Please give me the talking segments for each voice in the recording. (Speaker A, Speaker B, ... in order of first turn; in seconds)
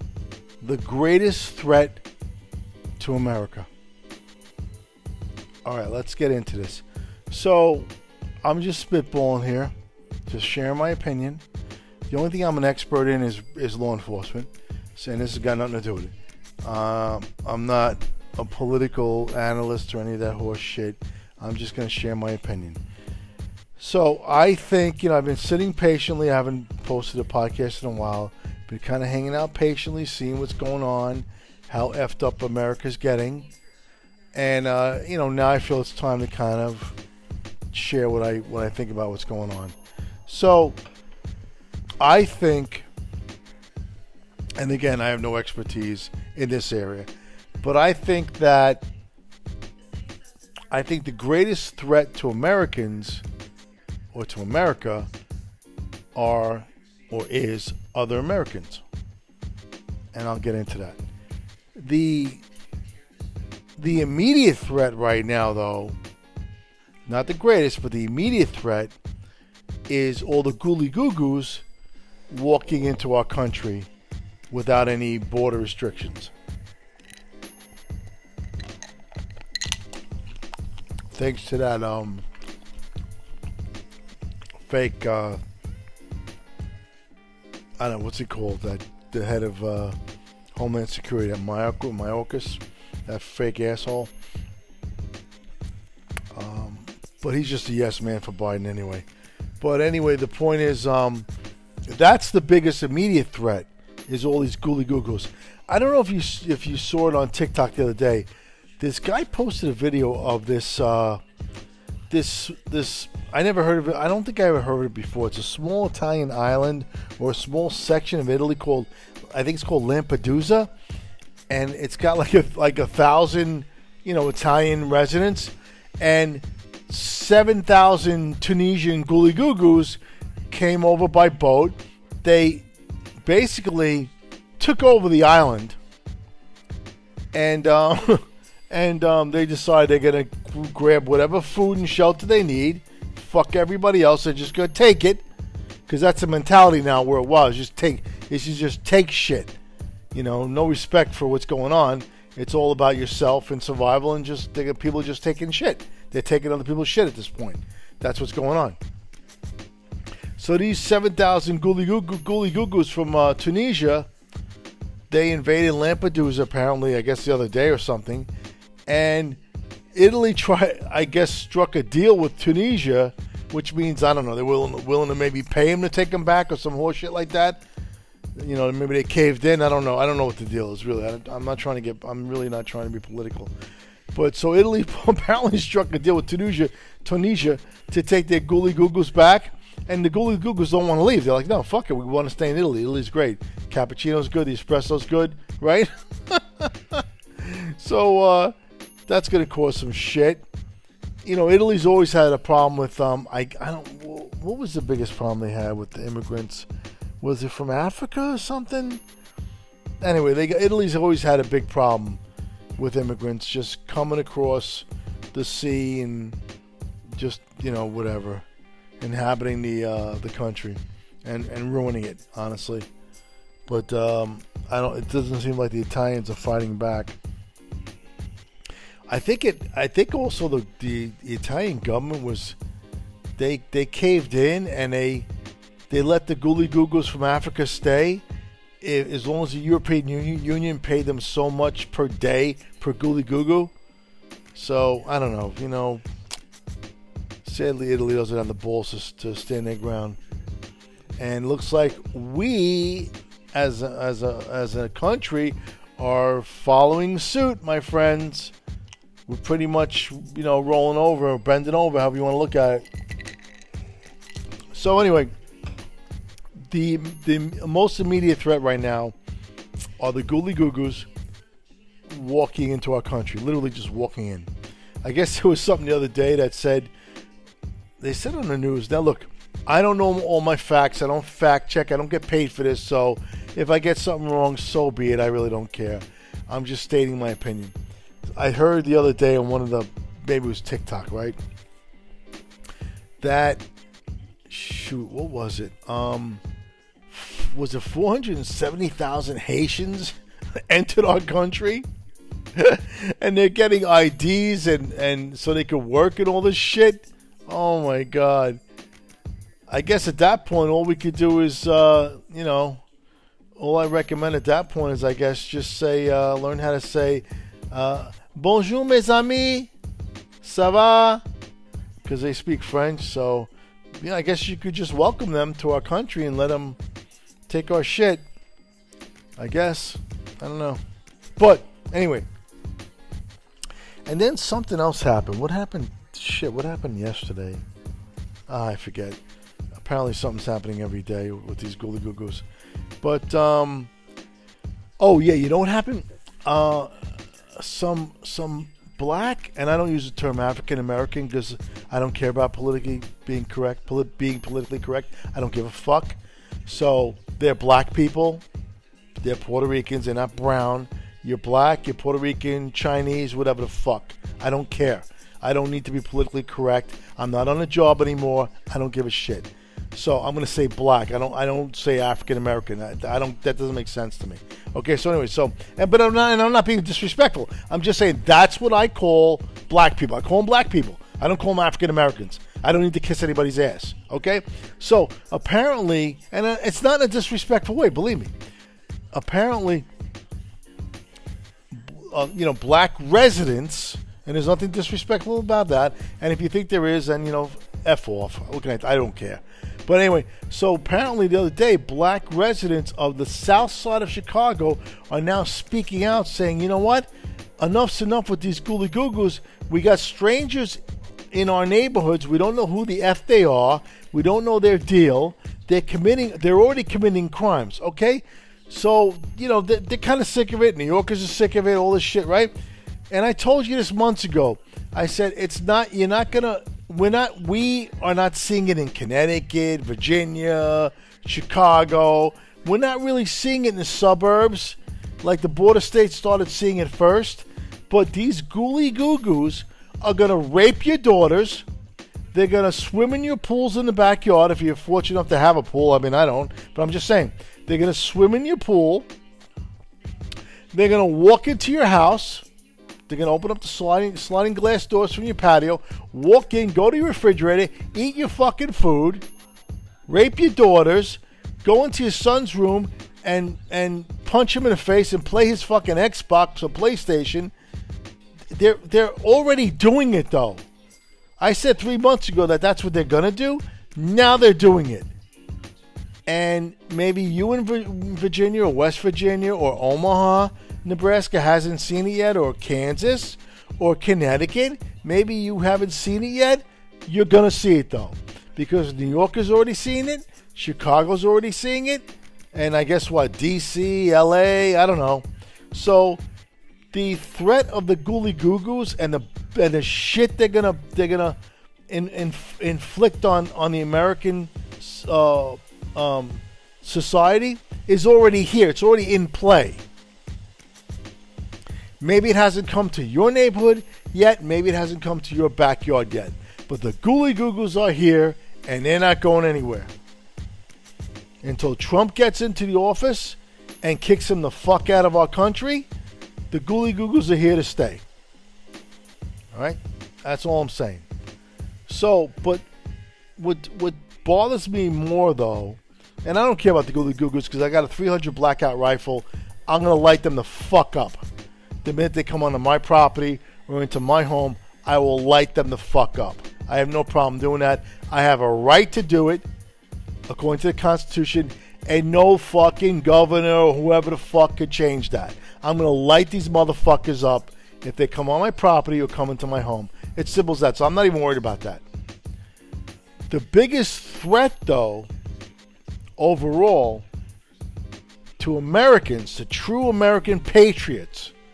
Speaker A: 0.6-2.0, 3.0-3.7, 5.7-7.9, 8.4-9.7, 10.3-11.4, 12.1-16.1, 16.6-22.8, 23.8-33.5, 34.3-37.0, 37.7-39.8, 40.3-40.8, 42.0-42.9, 44.6-47.1, 47.6-48.9, 50.7-53.2, 54.1-55.1, 56.1-58.8, 60.1-61.0, 61.8-62.4, 63.8-66.0, 67.1-69.0, 69.9-71.6, 72.3-73.9, 74.5-76.3, 81.1-82.2, 84.7-85.4, 87.8-90.0, 90.5-94.1, 96.3-99.1, 99.6-101.3, 101.9-108.3, 108.8-111.2, 112.1-120.7, 121.5-130.0, 130.5-132.7, 133.2-135.8, 137.3-145.2, 145.9-149.5, 150.1-158.8, 160.4-164.1, 165.1-168.3, 168.9-169.4, 169.9-177.6, 178.4-183.5, 184.1-198.6, 199.1-200.4, 201.2-206.7, 207.2-209.0, 210.0-212.2, 212.8-216.4, 217.2-218.4, 219.0-222.9, 223.7-227.2, 229.1-232.6, 233.4-235.3, 235.9-238.2, 238.8-243.7, 244.6-246.0, 247.4-250.2, 251.2-258.5, 259.3-262.9, 264.7-265.3, 266.7-269.1, 270.0-271.1, 272.1-274.5, 275.0-276.9, 278.0-287.8, 288.4-291.4, 293.2-293.6, 294.5-296.4, 297.1-300.2, 300.7-301.9, 302.6-308.6, 309.7-312.8, 313.6-319.7, 320.4-321.2, 322.0-323.5, 324.0-326.8, 327.5-328.2, 329.4-330.8, 331.4-332.3, 334.1-337.6, 338.5-339.2, 339.8-342.4, 343.0-343.9, 345.0-346.9, 347.6-358.4, 359.2-388.3, 389.1-389.9, 391.7-407.1, 407.6-422.5, 423.1-441.6, 442.3-449.1, 450.7-452.4, 453.1-459.2, 460.1-467.5, 468.5-470.6, 471.4-475.1, 476.3-496.2, 496.9-501.4, 501.9-509.8, 512.0-519.9, 521.4-525.9, 526.5-528.0, 529.5-531.1, 531.9-532.6, 533.4-541.2, 541.8-549.5, 550.3-561.8, 563.3-565.1, 566.2-567.0, 568.4-571.3